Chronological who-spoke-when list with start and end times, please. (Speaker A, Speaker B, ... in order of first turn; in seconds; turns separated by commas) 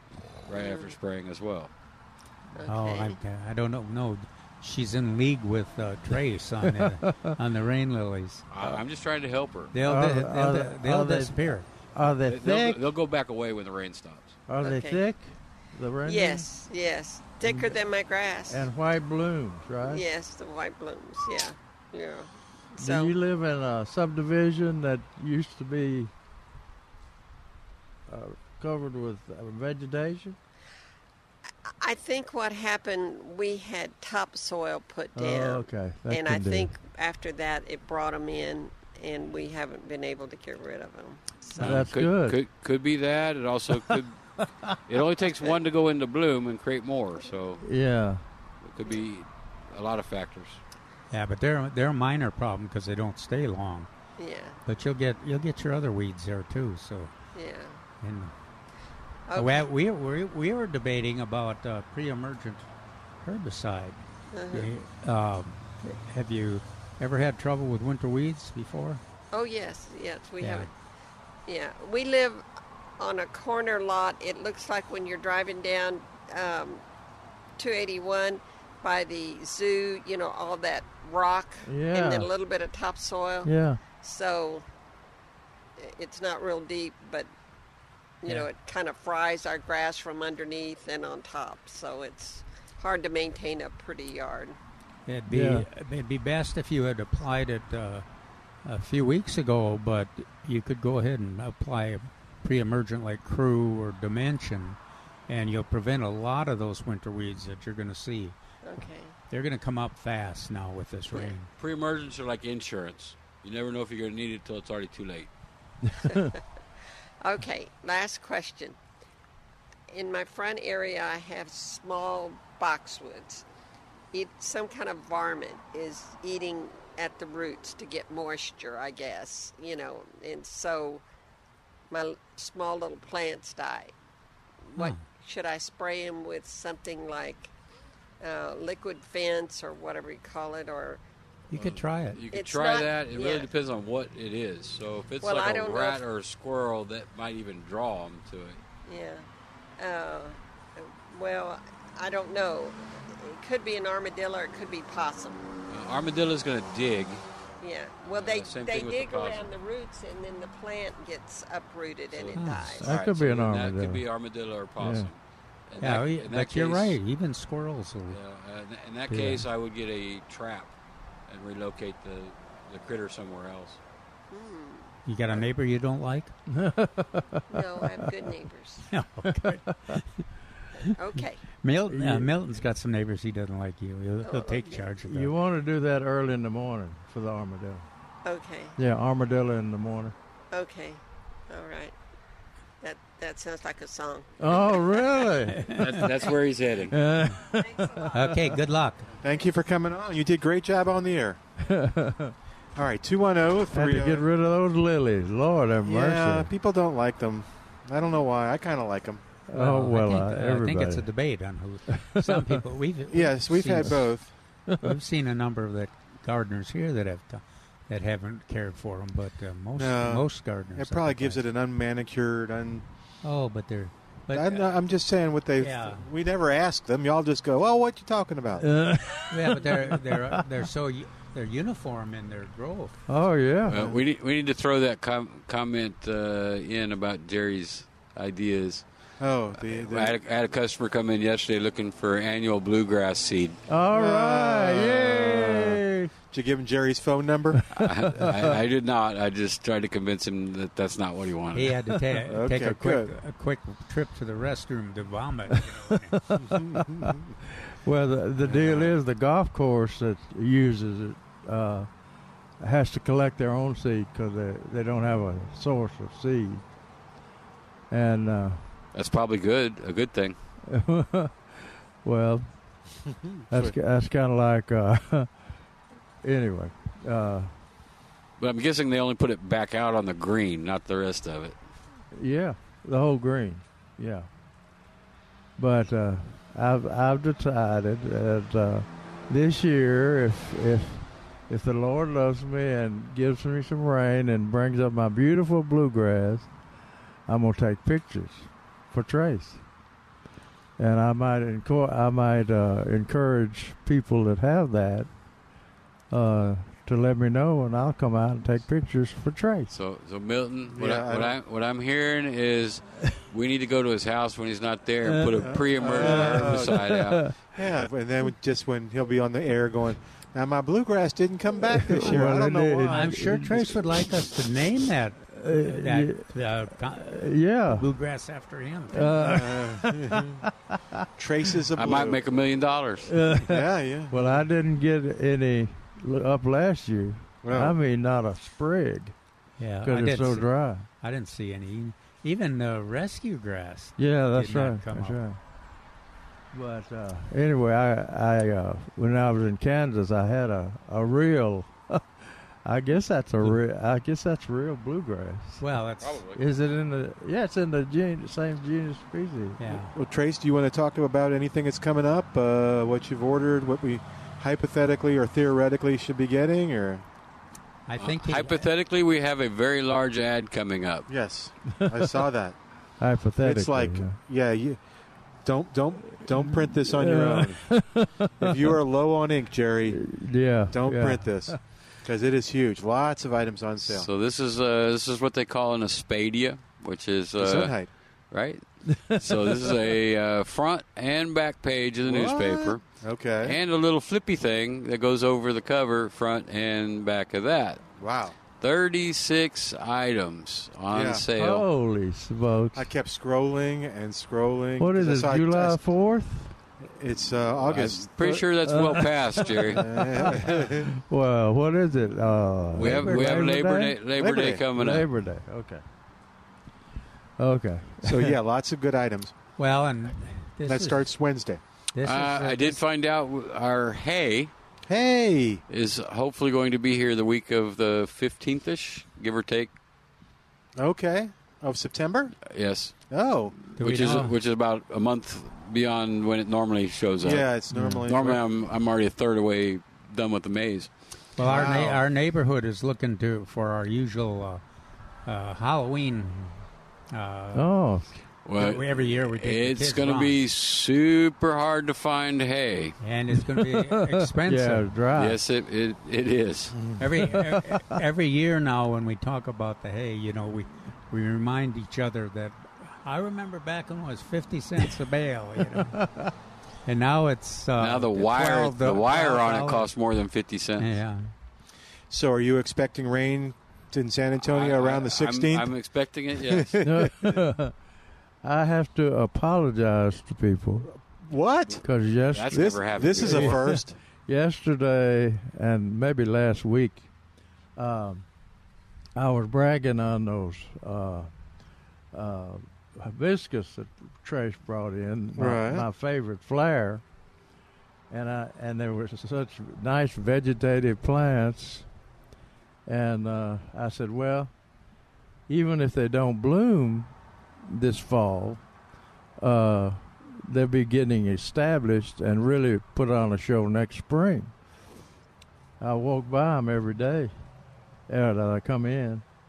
Speaker A: 0.5-1.7, Speaker B: 0.5-0.9, Speaker B: 2.5-3.2, Speaker C: 2.6-8.5, Speaker D: 6.6-7.3, Speaker A: 8.5-9.7, Speaker C: 9.7-11.7, Speaker D: 9.8-12.8, Speaker A: 12.2-14.4, Speaker D: 14.5-16.5, Speaker B: 14.6-15.1, Speaker B: 16.0-18.7, Speaker D: 17.4-17.8, Speaker D: 18.5-20.0, Speaker B: 19.8-23.1, Speaker D: 22.8-26.1, Speaker D: 28.1-30.4, Speaker B: 31.8-41.8, Speaker D: 35.1-36.7, Speaker A: 41.6-44.2, Speaker D: 41.6-42.4, Speaker D: 43.9-44.7, Speaker A: 44.9-47.6, Speaker D: 47.6-48.2, Speaker A: 48.6-50.6, Speaker C: 51.1-53.9, Speaker B: 54.2-54.6, Speaker C: 54.6-57.1, Speaker B: 57.3-57.8, Speaker C: 58.0-58.3, Speaker B: 59.3-59.7, Speaker C: 59.3-62.7, Speaker C: 63.2-64.0, Speaker B: 64.3-64.7, Speaker C: 64.5-69.0, Speaker B: 69.3-70.7, Speaker C: 70.4-70.7, Speaker B: 71.5-72.4, Speaker B: 73.0-76.8, Speaker B: 77.6-84.7, Speaker D: 81.6-82.3, Speaker D: 83.4-83.8, Speaker B: 85.8-87.3, Speaker B: 88.2-94.6, Speaker C: 95.0-98.0, Speaker D: 95.3-95.7, Speaker C: 98.6-108.4, Speaker B: 108.6-109.1, Speaker C: 109.3-111.5, Speaker A: 111.6-115.3, Speaker B: 116.1-116.4, Speaker B: 117.2-118.8, Speaker B: 119.9-123.4, Speaker B: 124.1-131.0, Speaker B: 131.9-133.9, Speaker B: 134.7-137.5, Speaker C: 134.8-135.0, Speaker B: 138.2-141.0, Speaker C: 141.5-142.2, Speaker A: 141.6-148.6, Speaker B: 142.3-143.5, Speaker B: 145.2-146.0, Speaker B: 148.8-149.2, Speaker B: 149.8-155.4, Speaker A: 155.7-157.2, Speaker B: 157.6-162.9, Speaker A: 158.1-159.6, Speaker A: 162.1-165.2, Speaker C: 162.3-162.8, Speaker D: 162.8-164.0, Speaker D: 164.8-165.1, Speaker A: 165.7-166.9, Speaker C: 165.8-168.2, Speaker A: 168.1-170.7, Speaker C: 169.1-169.4, Speaker A: 171.3-173.8, Speaker B: 174.3-174.9, Speaker C: 175.0-176.3, Speaker D: 176.5-178.3, Speaker B: 177.5-178.9, Speaker C: 178.9-180.2, Speaker D: 179.3-180.0, Speaker B: 180.9-181.4, Speaker C: 181.6-185.3, Speaker D: 181.9-182.3, Speaker B: 184.2-184.9, Speaker D: 185.0-187.8, Speaker B: 188.2-188.8, Speaker D: 188.8-190.1, Speaker B: 190.5-191.9, Speaker B: 192.8-195.4, Speaker D: 194.4-195.7, Speaker A: 195.7-197.0, Speaker D: 196.9-198.5, Speaker B: 197.4-198.7, Speaker C: 198.1-199.1, Speaker E: 199.2-201.4, Speaker D: 201.6-202.3, Speaker E: 202.7-204.2, Speaker D: 203.7-206.5, Speaker E: 205.8-209.2, Speaker D: 209.5-211.1, Speaker C: 209.5-214.1, Speaker D: 211.9-212.6, Speaker E: 213.1-214.3, Speaker D: 214.7-214.9, Speaker C: 214.8-221.4, Speaker E: 219.8-222.8, Speaker C: 223.2-224.8, Speaker E: 224.3-228.7, Speaker C: 225.6-226.0, Speaker D: 228.6-230.4, Speaker C: 229.3-233.0, Speaker D: 233.1-233.8, Speaker A: 233.7-238.8, Speaker E: 233.7-234.0, Speaker E: 239.2-240.1, Speaker A: 239.5-243.6, Speaker D: 243.7-246.1, Speaker E: 243.9-247.6, Speaker D: 247.6-248.6, Speaker A: 247.7-251.8, Speaker C: 251.5-256.3, Speaker E: 252.3-253.1, Speaker D: 256.3-261.9, Speaker E: 256.5-257.2, Speaker E: 258.4-258.9, Speaker D: 262.6-266.6, Speaker D: 267.9-268.6, Speaker A: 268.9-270.4, Speaker D: 270.6-272.5, Speaker E: 273.1-273.7, Speaker D: 273.5-275.3, Speaker D: 276.2-277.5, Speaker A: 278.4-281.6, Speaker D: 282.1-284.3, Speaker D: 285.6-296.5, Speaker D: 297.3-299.6, Speaker D: 300.8-305.1, Speaker D: 306.1-309.7, Speaker A: 309.7-317.5, Speaker E: 310.7-311.3, Speaker D: 315.0-317.3, Speaker E: 315.4-316.8, Speaker E: 317.5-323.1, Speaker D: 321.7-323.9, Speaker C: 322.9-329.2, Speaker D: 325.3-326.3, Speaker D: 326.9-327.9, Speaker D: 328.9-331.0, Speaker E: 329.2-330.5, Speaker E: 331.2-332.2, Speaker A: 331.7-333.1, Speaker D: 333.1-339.1, Speaker E: 333.4-334.3, Speaker E: 337.4-337.8, Speaker C: 339.6-345.2, Speaker D: 339.8-340.9, Speaker D: 344.0-345.4, Speaker D: 346.5-355.6, Speaker C: 355.6-356.2, Speaker A: 356.0-356.4, Speaker D: 356.3-359.7, Speaker C: 359.6-359.9, Speaker E: 359.9-367.0, Speaker C: 367.9-368.7, Speaker A: 368.0-371.1, Speaker E: 371.1-372.6, Speaker D: 371.8-372.1, Speaker D: 373.0-374.2, Speaker E: 373.4-374.8, Speaker E: 375.4-377.8, Speaker D: 376.3-378.8, Speaker E: 378.4-380.1, Speaker D: 379.9-381.6, Speaker E: 380.7-384.1, Speaker A: 383.9-392.8, Speaker E: 387.4-387.9, Speaker D: 388.9-389.6, Speaker E: 392.1-393.6, Speaker A: 393.4-397.8, Speaker E: 398.0-398.4, Speaker A: 398.6-401.7, Speaker E: 400.9-401.2, Speaker D: 401.4-402.9, Speaker E: 402.7-405.8, Speaker D: 404.8-406.5, Speaker E: 406.8-408.1, Speaker A: 407.6-409.8, Speaker D: 408.2-414.0, Speaker E: 409.7-410.9, Speaker A: 412.7-415.1, Speaker E: 412.9-413.2, Speaker E: 414.2-414.6, Speaker D: 414.7-415.8, Speaker D: 417.4-418.4, Speaker E: 418.0-419.3, Speaker C: 419.6-421.1, Speaker E: 420.7-421.6, Speaker C: 421.9-422.8, Speaker A: 422.0-424.5, Speaker E: 424.9-425.6, Speaker A: 425.7-429.7, Speaker E: 430.8-432.4, Speaker A: 432.5-432.9, Speaker E: 433.1-433.6, Speaker A: 433.7-440.9, Speaker C: 433.8-434.3, Speaker E: 437.2-438.4, Speaker D: 437.7-438.1, Speaker C: 441.4-444.6, Speaker E: 441.4-442.0, Speaker C: 445.2-447.7, Speaker D: 447.5-448.2, Speaker A: 448.4-452.9, Speaker C: 448.6-450.3, Speaker C: 453.0-454.9, Speaker D: 453.4-455.4, Speaker A: 455.1-456.8, Speaker D: 456.7-458.0, Speaker C: 457.0-466.0, Speaker D: 465.7-466.3, Speaker C: 466.8-469.9, Speaker A: 467.8-470.9, Speaker C: 470.8-471.3, Speaker E: 472.1-475.7, Speaker A: 474.4-476.8, Speaker E: 476.4-477.4, Speaker D: 476.8-477.7, Speaker D: 478.4-480.9, Speaker E: 480.9-481.8, Speaker D: 481.8-487.1, Speaker A: 482.3-483.7, Speaker E: 482.5-484.0, Speaker D: 487.8-488.2, Speaker D: 489.1-491.3, Speaker D: 492.1-497.0, Speaker E: 495.4-495.9, Speaker D: 498.1-501.9, Speaker D: 502.9-504.5, Speaker D: 505.5-507.1, Speaker D: 507.6-508.6, Speaker D: 509.4-514.5, Speaker D: 515.8-517.3, Speaker D: 518.1-519.2